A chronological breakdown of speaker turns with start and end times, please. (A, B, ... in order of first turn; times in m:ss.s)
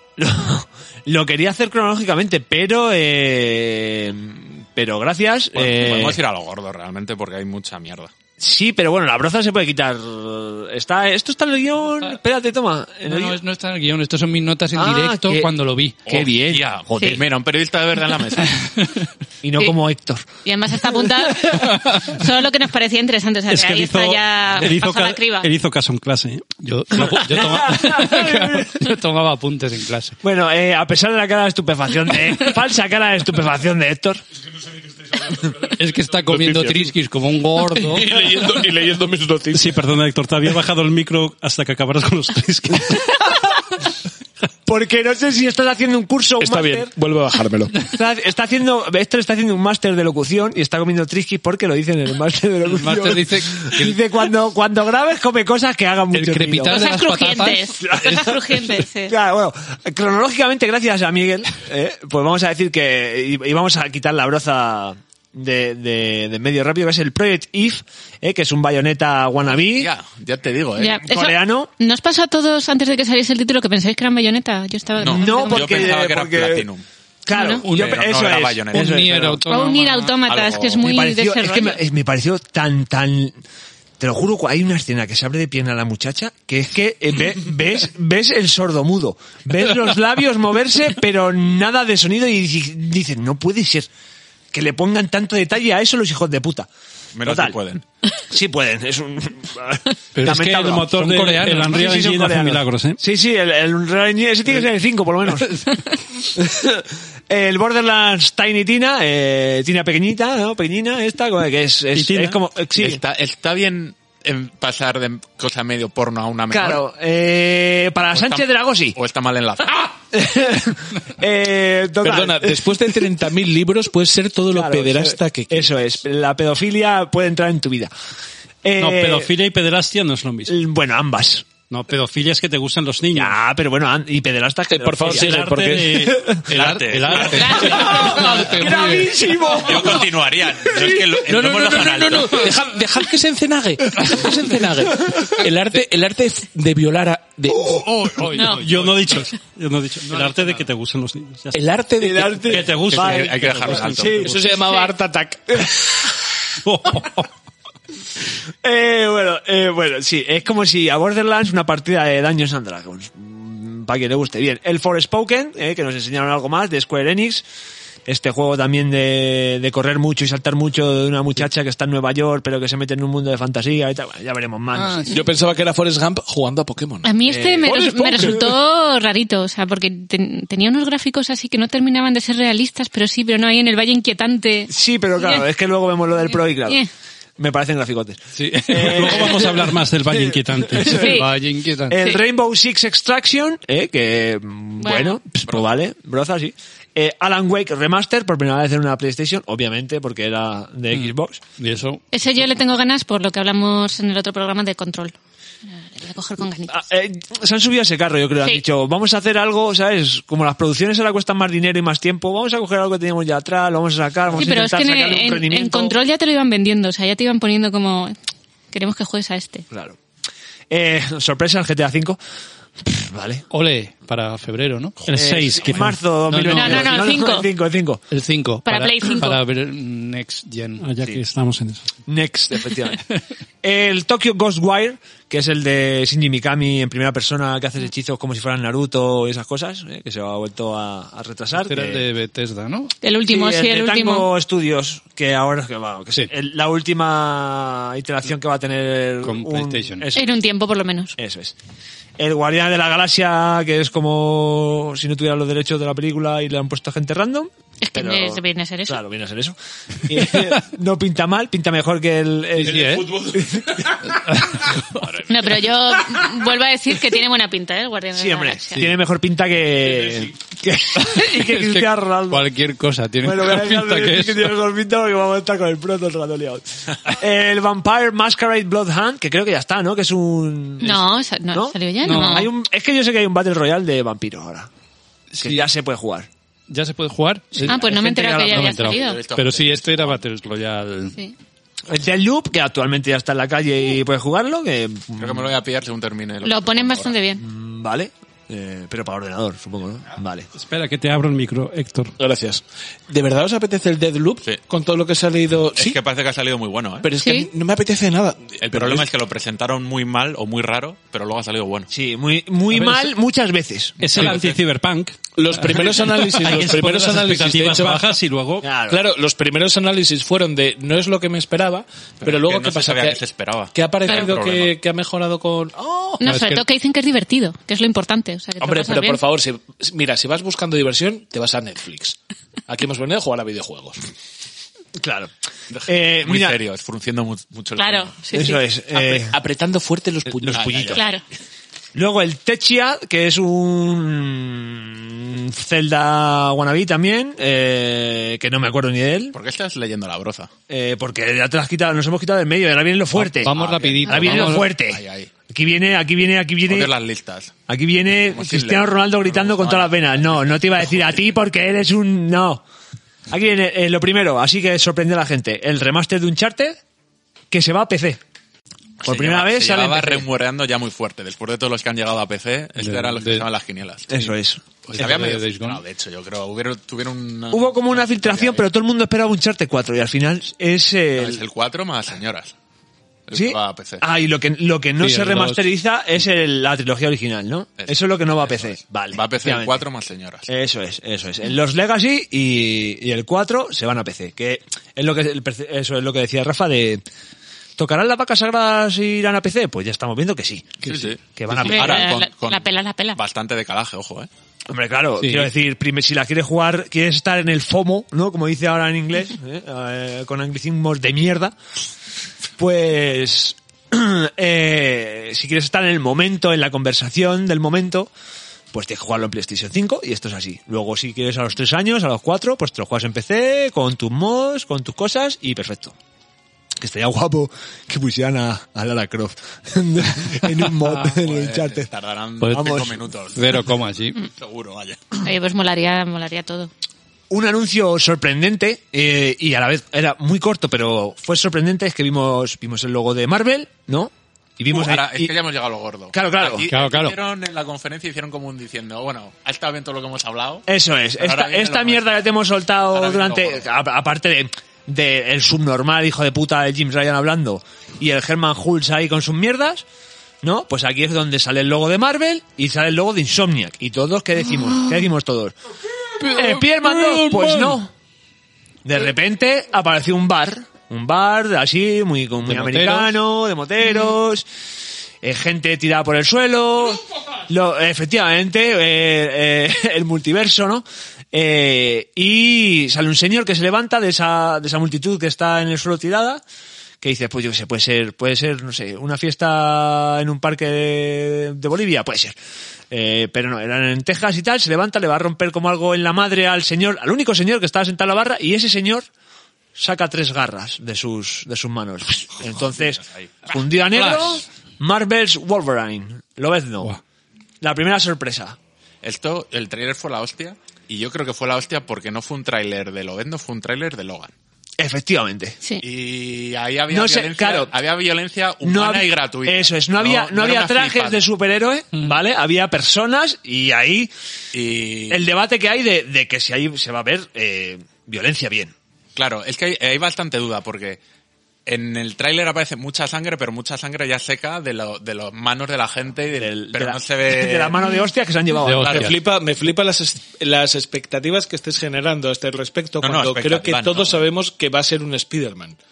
0:00.2-0:06.2 A
0:05.5-0:08.1 B
0:08.4-0:13.4 A
0:13.1-0:16.1 C
0:14.7-0:15.5 A
0:16.0-0:17.2 A
0:16.1-0:18.7 B
0:19.4-0:20.2 A
0:20.4-0:25.5 D
0:23.5-0:26.6 E
0:26.6-0:30.2 C
0:26.9-0:28.8 A
0:30.2-0:34.2 A
0:35.8-0:38.2 C
0:36.2-0:36.9 F
0:37.8-0:39.8 F
0:39.5-0:43.4 E
0:44.6-0:46.9 A
0:46.4-0:47.8 F
0:47.9-0:56.8 A
0:52.7-0:54.0 C
0:56.1-0:57.9 C
0:56.6-0:59.1 D
0:57.8-1:09.9 A
1:09.6-1:11.0 B
1:10.8-1:15.9 D
1:11.0-1:11.7 A
1:15.0-1:16.8 B
1:15.0-1:16.7 A
1:17.2-1:19.4 A
1:17.3-1:17.6 D
1:17.6-1:19.0 B
1:17.7-1:17.9 C
1:18.7-1:20.2 C
1:19.5-1:21.8 D
1:20.3-1:20.9 B
1:20.8-1:23.4 A
1:24.0-1:33.9 A
1:34.5-1:36.7 A
1:37.1-1:37.8 B
1:37.2-1:37.6 A
1:38.3-1:45.7 A
1:40.1-1:43.0 E
1:46.3-1:53.0 A
1:51.9-1:52.4 E
1:52.8-1:56.8 B
1:56.5-1:59.0 A
1:58.1-2:00.0 B
2:00.1-2:02.7 A
2:02.0-2:05.7 F
2:04.5-2:07.9 A
2:08.6-2:09.3 A
2:08.8-2:10.6 E
2:10.5-2:11.4 A
2:11.6-2:13.3 E
2:13.1-2:16.4 A
2:14.7-2:16.1 F
2:15.0-2:17.4 E
2:16.5-2:18.5 B
2:17.2-2:19.3 C
2:17.4-2:17.8 D
2:17.5-2:20.1 A
2:19.6-2:22.5 B
2:20.8-2:27.8 F
2:28.0-2:29.2 C
2:28.3-2:28.7 D
2:28.4-2:31.6 E
2:31.5-2:33.2 F
2:32.0-2:34.4 A
2:32.2-2:34.3 E
2:32.8-2:34.4 B
2:33.9-2:36.0 F
2:34.6-2:34.9 D
2:36.6-2:37.2 E
2:38.6-2:47.4 A
2:48.0-2:55.0 A
2:54.7-2:55.1 C
2:55.0-2:57.1 F
2:57.0-3:05.4 D
2:57.2-2:58.4 A
2:57.6-2:58.5 F
3:04.7-3:06.8 A
3:06.3-3:06.9 D
3:07.4-3:11.0 A
3:08.4-3:09.2 C
3:08.6-3:11.1 E
3:10.7-3:12.0 C
3:10.8-3:11.3 D
3:11.9-3:21.4 A
3:14.8-3:15.2 D
3:21.6-3:22.0 C
3:22.1-3:25.1 D
3:25.7-3:26.8 D
3:26.7-3:36.0 A
3:34.4-3:38.1 D
3:38.7-3:39.7 D
3:39.7-3:40.0 A
3:40.7-3:42.2 A
3:42.8-3:43.4 A
3:43.5-3:45.2 C
3:45.0-3:46.5 E
3:45.1-3:48.0 A
3:46.3-3:47.2 C
3:46.5-3:47.5 D
3:48.1-3:50.9 C
3:48.6-3:49.4 D
3:50.8-3:51.8 E
3:52.1-3:53.0 A
3:53.6-4:02.0 A
4:01.6-4:02.9 C
4:03.0-4:04.3 D
4:03.3-4:10.3 A
4:09.2-4:10.1 C
4:10.1-4:11.2 D
4:11.2-4:11.5 A
4:12.2-4:24.1 A
4:17.8-4:19.0 D
4:22.6-4:23.1 C
4:23.2-4:23.5 F
4:24.2-4:25.0 C
4:25.1-4:28.8 D
4:28.1-4:32.5 A
4:31.0-4:34.5 C
4:33.2-4:44.7 A
4:40.8-4:42.5 D
4:42.0-4:42.5 C
4:45.3-4:45.6 C
4:45.4-4:46.3 A
4:46.7-4:51.2 C
4:47.6-4:49.2 D
4:47.9-4:48.2 A
4:48.8-4:50.2 B
4:51.9-4:55.5 A
4:55.2-4:57.1 B
4:56.4-4:57.4 D
4:57.4-5:00.5 A
5:00.5-5:02.1 E
5:02.2-5:06.0 F
5:05.8-5:07.1 B
5:07.0-5:09.1 F
5:07.2-5:07.5 D
5:08.6-5:11.9 B
5:11.9-5:14.1 A
5:12.7-5:13.1 E
5:14.0-5:18.6 E
5:14.1-5:14.6 B
5:15.4-5:18.1 F
5:18.6-5:19.0 A
5:18.9-5:23.2 F
5:22.2-5:24.7 B
5:23.7-5:25.8 F
5:26.2-5:29.2 D
5:26.2-5:26.6 C
5:28.6-5:34.0 F
5:35.0-5:35.3 A
5:35.7-5:38.2 B
5:35.8-5:36.6 A
5:37.8-5:38.6 D
5:38.3-5:39.3 A
5:38.9-5:41.0 F
5:40.4-5:41.0 A
5:40.5-5:41.0 B
5:40.9-5:41.2 D
5:41.9-5:49.4 A
5:49.3-5:50.5 B
5:50.7-5:53.5 A
5:53.2-5:54.7 C
5:53.4-5:55.3 B
5:54.0-5:56.9 A
5:56.7-5:57.5 B
5:57.7-6:02.6 A
5:58.2-6:01.2 B
6:03.3-6:06.8 A
6:07.5-6:08.2 A
6:09.0-6:10.2 A
6:09.0-6:14.3 B
6:12.8-6:13.4 C
6:14.1-6:14.6 A
6:14.9-6:18.6 B
6:14.9-6:15.8 C
6:17.5-6:21.4 A
6:21.2-6:22.5 B
6:23.3-6:24.0 B
6:23.3-6:29.8 A
6:25.0-6:25.6 C
6:27.8-6:30.5 B
6:30.5-6:37.0 A
6:37.8-6:42.1 A
6:40.8-6:44.3 B
6:41.6-6:43.2 D
6:44.7-6:51.5 A
6:45.2-6:45.5 C
6:52.6-6:58.1 A
6:58.7-7:05.9 A
7:06.8-7:11.9 A
7:11.0-7:13.6 B
7:12.4-7:12.8 C
7:12.5-7:13.0 A
7:13.3-7:14.2 C
7:14.2-7:15.2 B
7:15.2-7:16.7 D
7:17.3-7:25.3 A
7:24.7-7:30.6 B
7:26.1-7:26.7 A
7:26.7-7:27.2 C
7:30.7-7:39.8 A
7:31.2-7:32.2 B
7:32.9-7:33.6 B
7:40.4-7:45.5 A
7:46.2-7:47.9 A
7:48.8-7:54.4 A
7:52.5-7:53.1 C
7:55.2-8:06.4 A
8:07.0-8:12.4 A
8:12.9-8:19.0 A
8:19.8-8:26.9 A
8:27.6-8:28.6 A
8:29.0-8:34.3 B
8:34.8-8:35.6 A
8:35.8-8:41.2 B
8:36.9-8:37.7 A
8:38.6-8:44.1 A
8:44.5-8:45.3 B
8:45.1-8:48.7 A
8:49.1-8:51.0 B
8:51.6-8:57.8 B
8:56.3-8:59.0 A
8:58.6-8:59.1 C
8:58.8-8:59.1 B
8:58.9-9:05.8 F
9:03.0-9:04.2 B